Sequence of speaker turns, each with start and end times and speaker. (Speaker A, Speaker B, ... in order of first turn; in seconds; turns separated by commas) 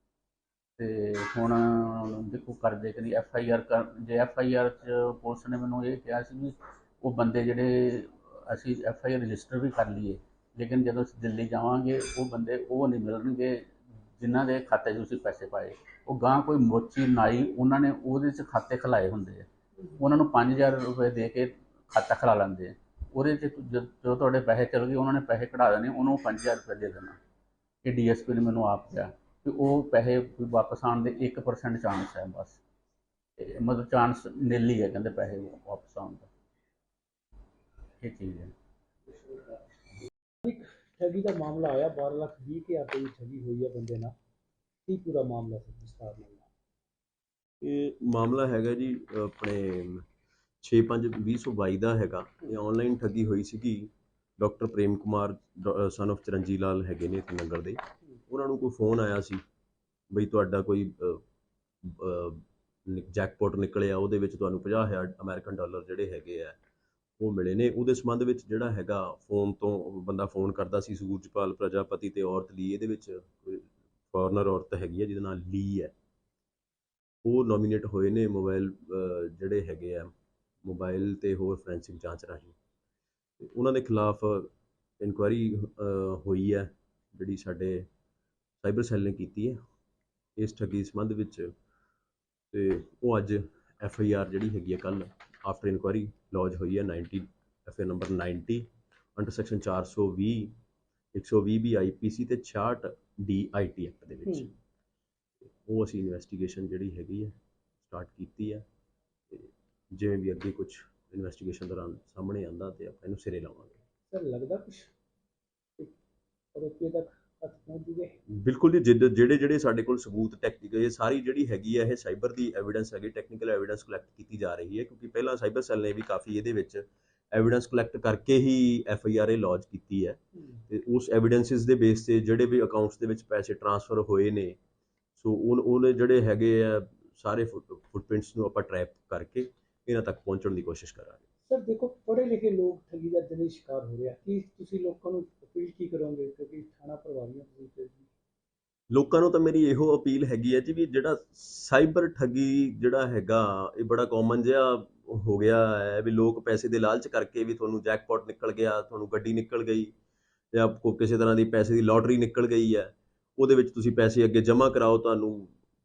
Speaker A: 0.8-27.2, Speaker A: 27.9-32.6, Speaker A: 33.4-36.3, Speaker A: 38.0-38.5, Speaker B: 39.2-39.5, Speaker B: 40.5-44.1, Speaker B: 44.9-46.5, Speaker C: 47.6-50.1, Speaker C: 50.6-59.4, Speaker C: 60.1-61.2, Speaker C: 61.8-66.6, Speaker C: 67.2-75.9, Speaker C: 77.2-80.1, Speaker C: 80.6-82.5, Speaker C: 83.4-87.9, Speaker C: 88.6-89.6, Speaker C: 90.4-91.5, Speaker C: 92.5-100.5, Speaker C: 101.1-104.5, Speaker C: 105.6-108.7, Speaker C: 109.3-113.8, Speaker B: 114.1-114.9, Speaker B: 116.5-118.2, Speaker C: 118.3-134.6, Speaker C: 135.2-141.2, Speaker B: 141.5-148.1, Speaker C: 148.9-159.9, Speaker C: 160.5-165.5